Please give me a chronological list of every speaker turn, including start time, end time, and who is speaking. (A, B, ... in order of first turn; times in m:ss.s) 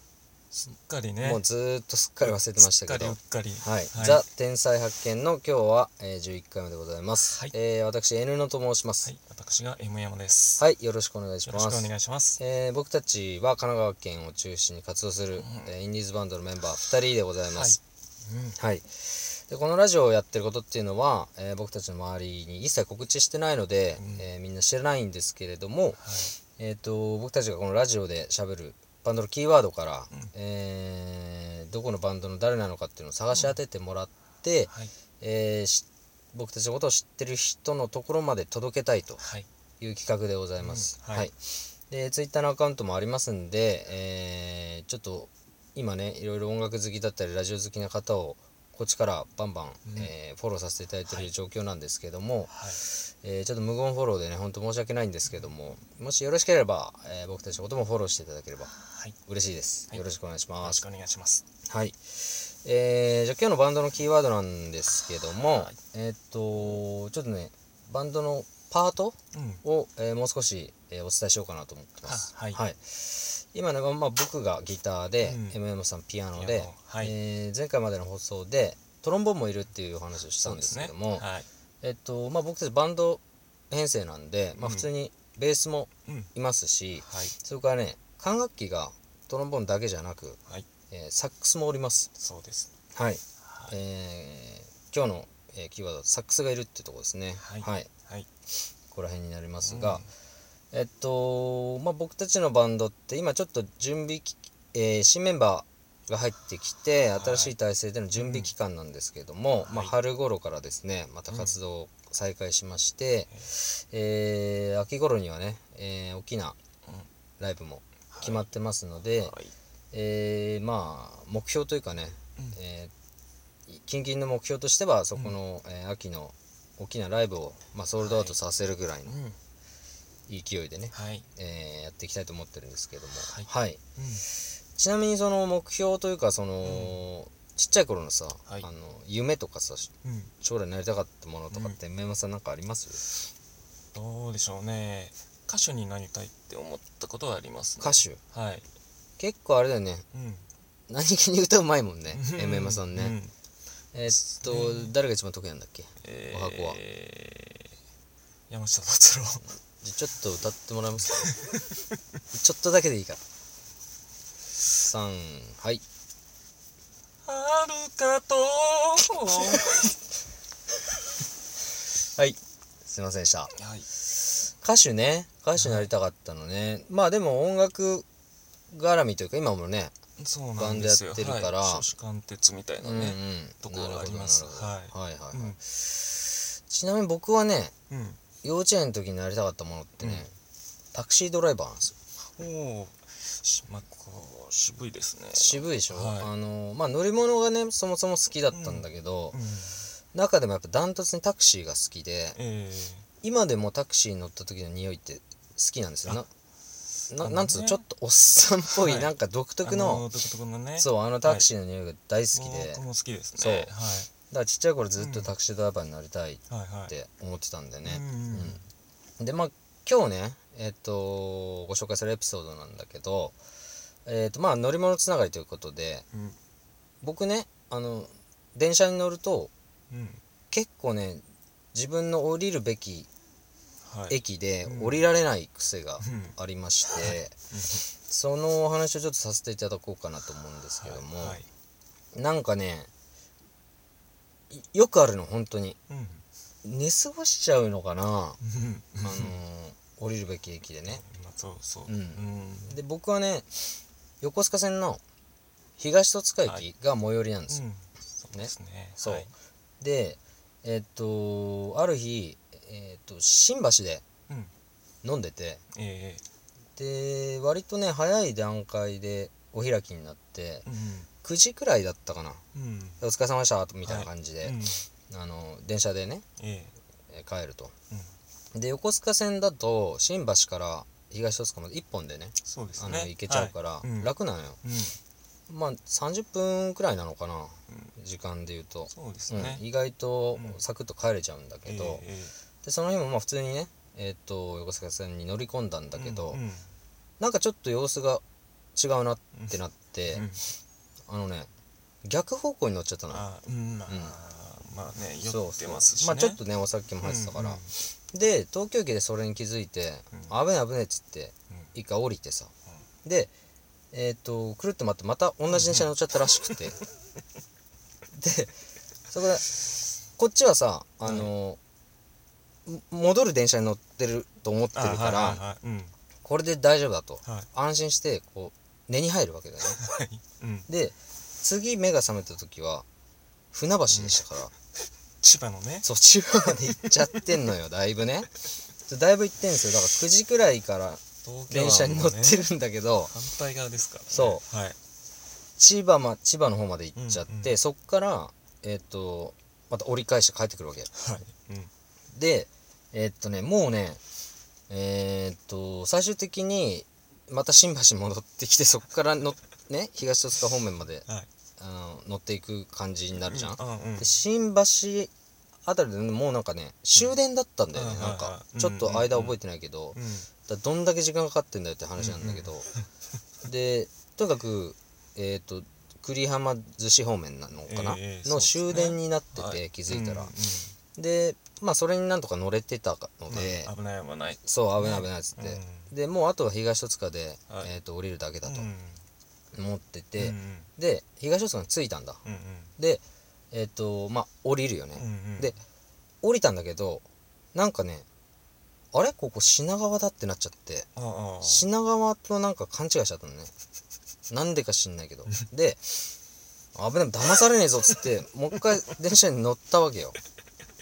0:00.5-0:01.4 A
0:01.2-0:09.1 B
0:02.3-0:04.2 A
0:07.3-0:07.5 A
0:09.0-0:10.6 A
0:10.6-0:17.8 B
0:11.5-0:12.4 A
0:15.4-0:15.7 A
0:17.5-0:18.6 A
0:18.6-0:26.0 B
0:24.0-0:24.3 A
0:26.0-0:26.3 A
0:26.6-0:39.2 B
0:39.2-0:39.5 A
0:39.8-0:58.7 B
0:40.6-0:41.3 A
0:49.8-0:50.1 A
0:52.5-0:52.8 A
0:58.7-0:59.2 A
0:59.3-1:00.8 B
1:00.6-1:01.4 A
1:01.6-1:21.2 B
1:05.4-1:05.8 A
1:09.3-1:09.6 A
1:12.0-1:12.6 A
1:15.2-1:15.6 A
1:16.4-1:17.1 A
1:20.4-1:21.5 A
1:21.8-1:32.1 B
1:24.6-1:24.9 A
1:27.0-1:27.3 A
1:32.2-1:32.7 A
1:32.9-1:37.9 B
1:33.4-1:33.7 A
1:37.4-1:38.3 A
1:38.9-1:40.0 B
1:39.6-1:40.1 A
1:40.7-1:56.6 B
1:47.1-1:47.5 A
1:48.1-1:48.5 A
1:49.6-1:49.9 A
1:57.4-1:59.3 B
1:58.1-1:58.4 A
1:59.2-1:59.5 A
1:59.9-2:02.9 B
2:03.7-2:09.1 B
2:08.0-2:08.4 A
2:09.0-2:09.4 A
2:10.3-2:13.8 B
2:10.9-2:11.2 A
2:13.2-2:14.2 A
2:14.8-2:23.1 B
2:16.6-2:17.0 A
2:20.0-2:20.3 A
2:21.5-2:21.8 A
2:23.9-2:28.7 A
2:27.8-2:28.2 B
2:29.2-2:30.0 B
2:30.1-2:30.4 A
2:30.9-2:33.2 B
2:32.1-2:33.3 A
2:33.9-2:36.8 B
2:34.1-2:34.9 A
2:36.0-2:37.7 A
2:38.5-2:39.4 A
2:39.5-2:41.3 B
2:41.4-2:41.7 A
2:42.3-2:43.2 B
2:44.8-2:45.8 B
2:47.2-2:50.0 A
2:52.1-2:53.5 B
2:53.5-2:53.9 A
2:54.5-2:58.0 B
2:55.6-2:55.9 A
2:58.7-2:59.9 B
3:00.2-3:05.6 A
3:00.6-3:01.8 B
3:02.8-3:07.7 B
3:07.9-3:08.2 A
3:08.4-3:10.3 B
3:10.0-3:10.3 A
3:10.9-3:11.9 B
3:12.4-3:16.3 A
3:15.3-3:19.4 B
3:18.5-3:19.8 A
3:20.1-3:22.4 B
3:22.3-3:23.0 A
3:23.2-3:26.3 B
3:27.1-3:30.0 B
3:27.2-3:27.8 A
3:28.8-3:29.1 A
3:29.6-3:31.5 A
3:30.8-3:32.8 B
3:32.3-3:34.1 A
3:33.4-3:33.7 B
3:34.3-3:38.6 B
3:35.0-3:35.3 A
3:36.5-3:36.9 A
3:37.8-3:38.6 A
3:39.2-3:43.4 B
3:44.0-3:46.0 B
3:47.0-3:49.5 B
3:49.9-3:50.2 A
3:50.5-3:53.1 B
3:53.8-3:55.1 A
3:54.1-3:57.3 B
3:56.0-3:56.4 A
3:56.9-3:57.8 A
3:58.1-4:01.4 B
4:00.8-4:01.5 A
4:02.1-4:02.9 B
4:04.5-4:05.8 B
4:05.9-4:06.2 A
4:06.6-4:08.4 B
4:08.4-4:09.3 A
4:09.0-4:11.0 B
4:10.9-4:12.8 A
4:11.9-4:15.0 B
4:15.8-4:17.6 B
4:17.5-4:19.3 A
4:18.3-4:19.3 B
4:19.8-4:24.0 B
4:25.0-4:25.6 B
4:25.7-4:26.2 A
4:26.8-4:30.7 B
4:30.6-4:31.1 A
4:31.2-4:32.4 B
4:32.5-4:33.0 A
4:33.0-4:34.6 B
4:33.8-4:34.8 A
4:35.1-4:36.2 B
4:36.4-4:36.7 A
4:37.1-4:37.7 B
4:38.5-4:44.6 B
4:42.4-4:44.1 A
4:44.6-4:45.0 A
4:45.5-4:52.0 B
4:47.7-4:47.9 A
4:48.9-4:49.6 A
4:50.3-4:50.6 A
4:51.6-4:52.3 A
4:52.6-4:56.4 B
4:55.9-4:56.7 A
4:57.2-4:58.2 B
4:58.8-5:00.2 B
5:00.1-5:00.4 A
5:01.1-5:01.5 B
5:02.0-5:03.2 B
5:03.1-5:06.4 A
5:03.9-5:04.1 B
5:05.2-5:12.5 B
5:07.0-5:07.7 A
5:13.0-5:13.3 B
5:13.9-5:16.8 B
5:15.5-5:15.9 A
5:18.1-5:18.5 B
5:19.1-5:19.5 B
5:20.2-5:21.6 B
5:21.0-5:21.3 A
5:22.6-5:25.4 B
5:24.7-5:25.9 A
5:26.2-5:29.8 B
5:29.7-5:30.7 A
5:30.7-5:32.8 B
5:33.5-5:34.5 B
5:33.9-5:34.2 A
5:35.2-5:35.9 A
5:35.8-5:38.3 B
5:36.6-5:37.2 A
5:38.9-5:43.1 B
5:41.2-5:42.4 A
5:43.0-5:44.8 A
5:44.1-5:44.4 B
5:45.6-5:50.9 B
5:46.9-5:47.5 A
5:50.9-5:51.7 A
5:52.1-5:54.0 B
5:54.7-6:01.0 B
6:01.6-6:05.1 B
6:03.1-6:04.1 A
6:05.6-6:12.6 B
6:07.7-6:09.4 A
6:09.9-6:10.3 A
6:12.0-6:12.8 A
6:13.4-6:20.3 B
6:17.7-6:20.7 A
6:21.0-6:23.7 B
6:23.3-6:25.9 A
6:24.4-6:28.7 B
6:28.4-6:29.0 A
6:29.5-6:32.2 B
6:30.2-6:30.7 A
6:32.2-6:32.7 A
6:32.8-6:35.6 B
6:35.0-6:35.5 A
6:36.2-6:38.0 B
6:38.9-6:40.9 B
6:40.9-6:41.7 A
6:41.4-6:43.5 B
6:44.3-6:46.0 B
6:46.7-6:50.2 B